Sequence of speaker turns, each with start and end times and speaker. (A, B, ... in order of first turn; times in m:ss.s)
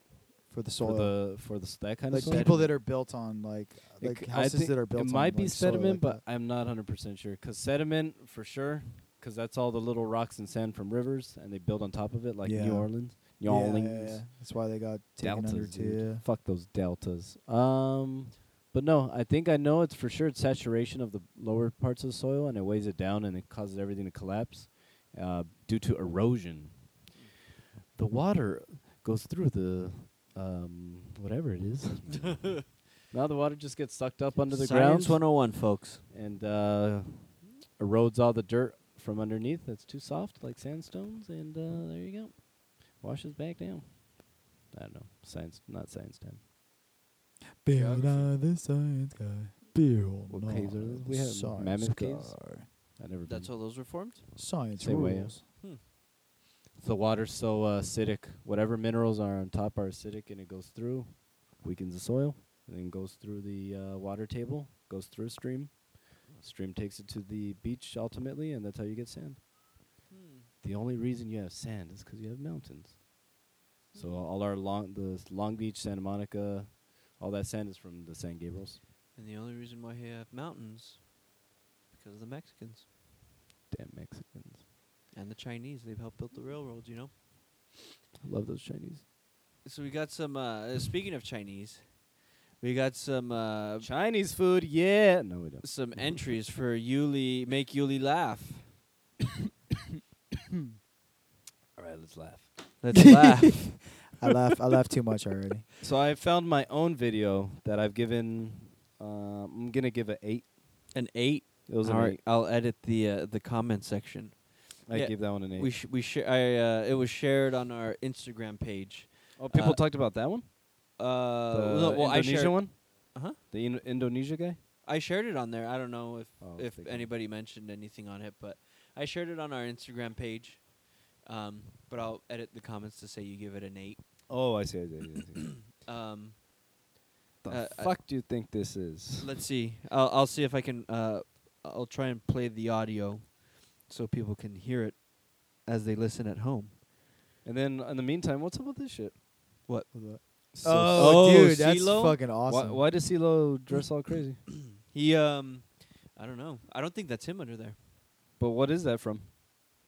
0:00.5-0:06.2 A
0:00.8-0:02.8 B
0:04.0-0:14.2 B
0:12.4-0:16.2 A
0:15.2-0:27.0 B
0:27.9-0:32.5 B
0:32.3-0:32.6 C
0:33.1-0:46.4 B
0:34.5-0:36.0 C
0:47.6-0:52.7 A
0:47.7-0:48.3 C
0:50.3-0:52.4 B
0:53.0-0:53.5 B
0:53.2-0:54.3 C
0:54.4-0:55.4 A
0:54.8-0:55.4 B
0:55.6-0:55.8 C
0:56.8-1:09.5 B
1:10.1-1:10.5 C
1:10.6-1:13.0 B
1:13.9-1:14.2 C
1:13.9-1:18.8 B
1:19.1-1:21.2 C
1:21.9-1:22.9 C
1:23.7-1:24.6 B
1:25.1-1:27.1 C
1:28.2-1:29.0 B
1:29.6-1:32.0 C
1:32.6-1:33.9 C
1:33.8-1:36.2 B
1:35.6-1:38.7 C
1:41.8-1:42.6 B
1:42.8-1:43.8 C
1:42.9-1:43.2 A
1:44.1-1:45.6 A
1:45.8-1:50.7 B
1:50.9-1:59.9 C
1:51.7-1:52.2 B
1:54.9-1:55.7 B
1:59.4-2:00.6 B
2:01.0-2:03.4 C
2:01.5-2:04.6 B
2:04.8-2:14.0 C
2:06.4-2:07.1 B
2:14.3-2:15.6 B
2:15.7-2:16.4 C
2:17.4-2:19.3 B
2:17.5-2:18.0 C
2:19.2-2:26.7 C
2:27.4-2:29.2 B
2:29.9-2:32.8 A
2:30.5-2:31.5 B
2:30.9-2:32.2 C
2:32.4-2:34.4 B
2:34.8-2:37.8 C
2:38.4-2:39.3 B